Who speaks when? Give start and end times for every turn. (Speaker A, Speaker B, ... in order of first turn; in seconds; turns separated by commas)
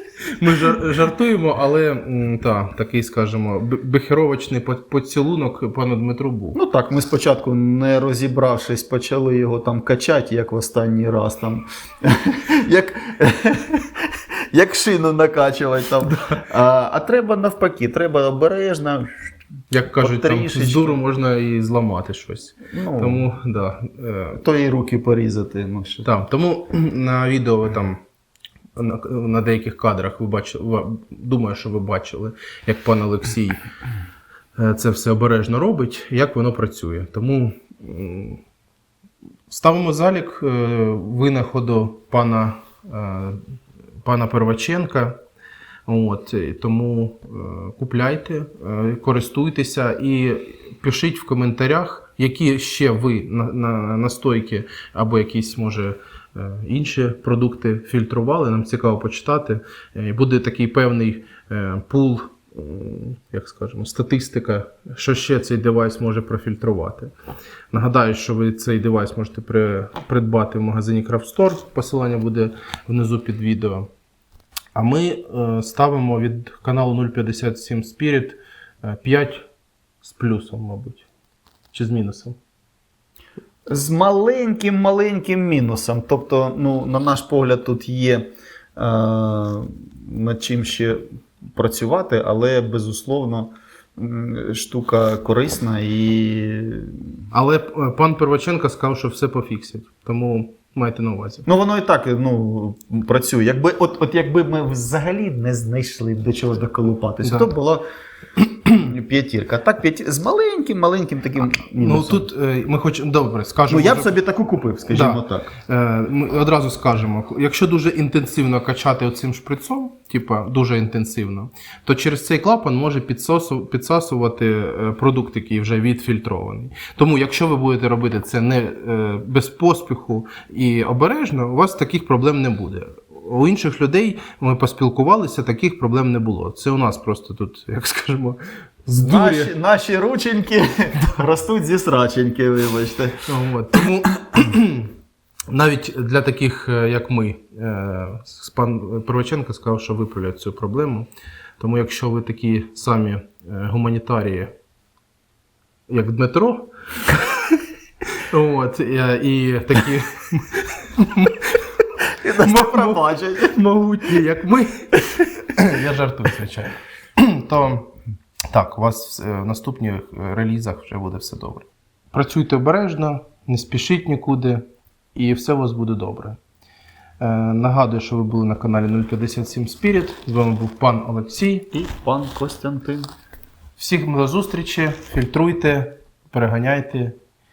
Speaker A: 0.4-6.6, Speaker B: 6.5-19.1, Speaker A: 19.7-24.4, Speaker B: 20.0-21.0, Speaker B: 22.7-23.3, Speaker B: 24.4-26.1, Speaker A: 26.0-28.0, Speaker A: 28.8-33.6, Speaker A: 34.5-38.4, Speaker A: 39.5-43.4, Speaker A: 44.0-45.2, Speaker A: 45.9-67.1, Speaker A: 67.7-73.9, Speaker A: 74.7-79.4, Speaker A: 80.0-81.0, Speaker A: 81.7-82.3, Speaker B: 83.7-97.2, Speaker A: 97.3-101.5, Speaker B: 101.5-107.8, Speaker A: 107.2-107.5, Speaker B: 108.7-112.3, Speaker A: 111.8-114.1, Speaker B: 113.7-115.5, Speaker A: 114.9-139.5, Speaker B: 139.0-143.2, Speaker A: 143.3-144.9, Speaker A: 145.5-151.1, Speaker A: 151.6-154.5, Speaker A: 155.9-157.6, Speaker A: 158.1-161.5, Speaker B: 162.2-163.6, Speaker A: 162.4-167.9, Speaker A: 168.5-174.6, Speaker A: 175.1-176.4, Speaker A: 177.2-181.7, Speaker B: 181.7-183.1, Speaker A: 183.8-187.2